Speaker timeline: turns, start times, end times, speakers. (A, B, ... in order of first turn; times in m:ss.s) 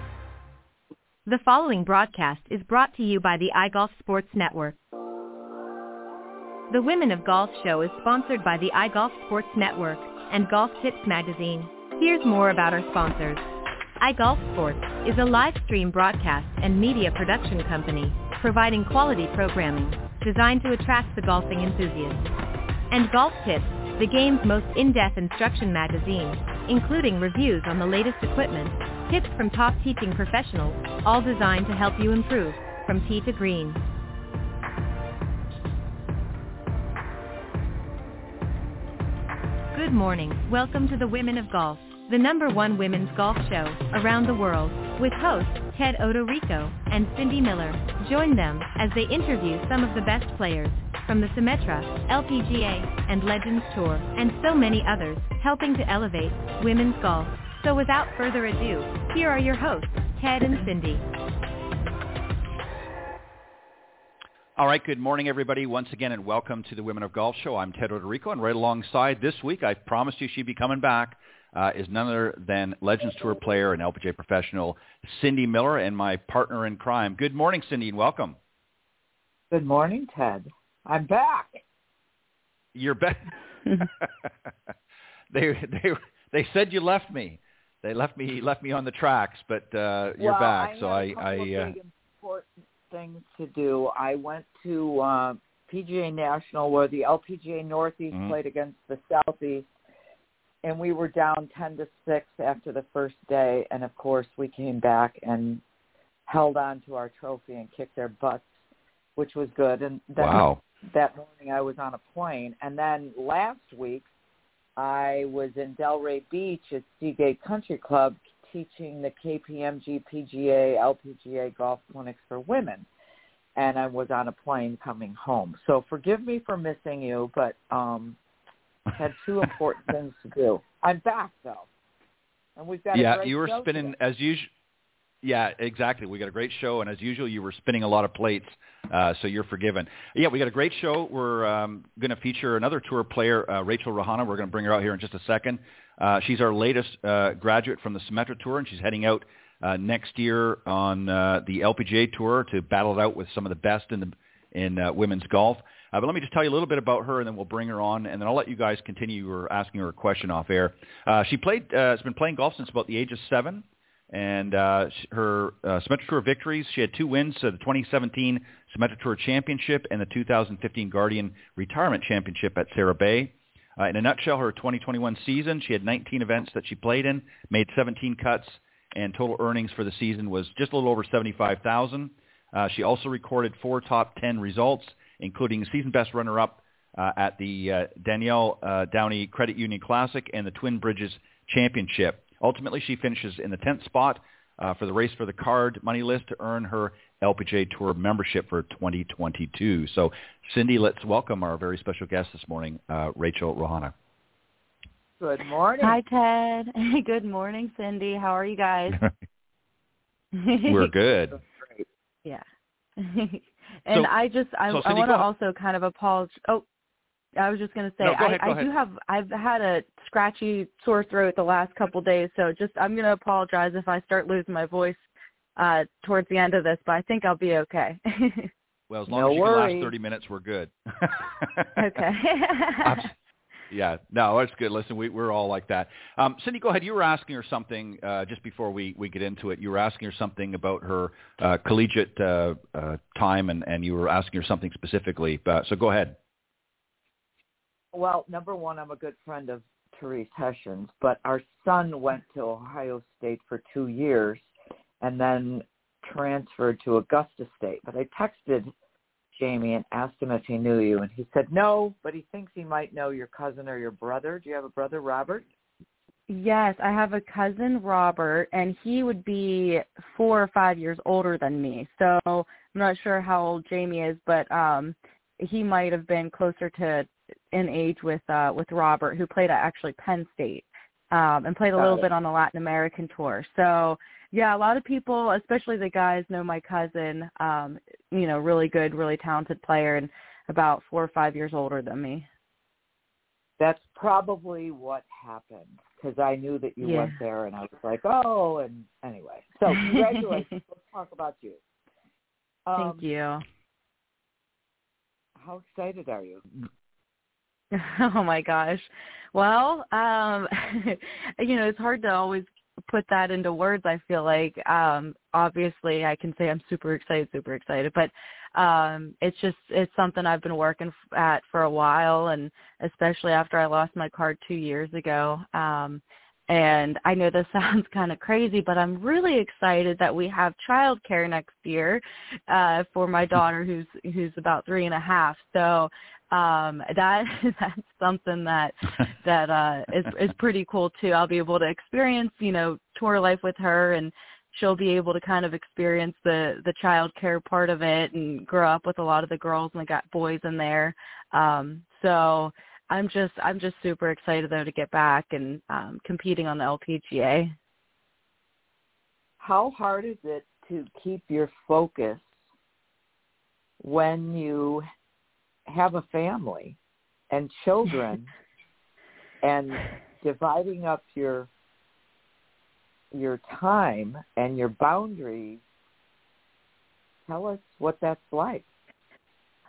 0:01.3-0:04.8 A
0:06.7-0:13.4 A
0:14.0-0:22.3 A
0:22.9-0:33.8 A
0:39.7-1:01.0 A
1:04.6-1:18.4 B
1:19.5-1:21.6 C
1:22.8-1:24.5 B
1:25.3-1:31.8 B
1:30.2-1:39.7 C
1:40.6-1:45.6 C
1:46.3-1:48.5 C
1:49.2-1:54.1 C
1:50.2-1:50.6 B
1:54.8-2:02.9 C
2:03.6-2:08.2 C
2:08.9-2:11.7 C
2:12.6-2:13.9 C
2:12.9-2:14.5 B
2:15.2-3:23.9 B
3:25.2-3:26.0 C
3:25.8-3:29.0 D
3:30.4-3:30.9 D
3:30.7-3:31.4 B
3:33.0-3:36.6 D
3:34.7-3:35.3 B
3:37.4-3:45.0 D
3:38.0-3:38.7 B
3:45.6-3:48.5 D
3:48.9-3:51.8 B
3:49.1-3:49.9 C
3:51.8-3:53.1 D
3:52.8-3:53.1 B
3:53.7-4:06.2 B
4:07.9-4:14.4 C
4:15.0-4:18.7 C
4:19.4-4:25.5 C
4:26.3-4:52.3 D
4:41.8-4:42.0 C
4:53.6-5:01.6 C
4:56.8-4:57.2 D
4:59.7-5:00.5 D
5:02.7-5:03.0 C
5:02.8-5:03.4 D
5:05.4-5:06.4 C
5:07.7-5:57.6 D
5:59.4-6:02.3 C
6:03.8-6:04.8 C
6:05.7-6:06.8 C
6:07.3-6:08.3 C
6:09.4-6:11.5 C
6:13.1-6:15.6 C
6:17.3-6:18.6 C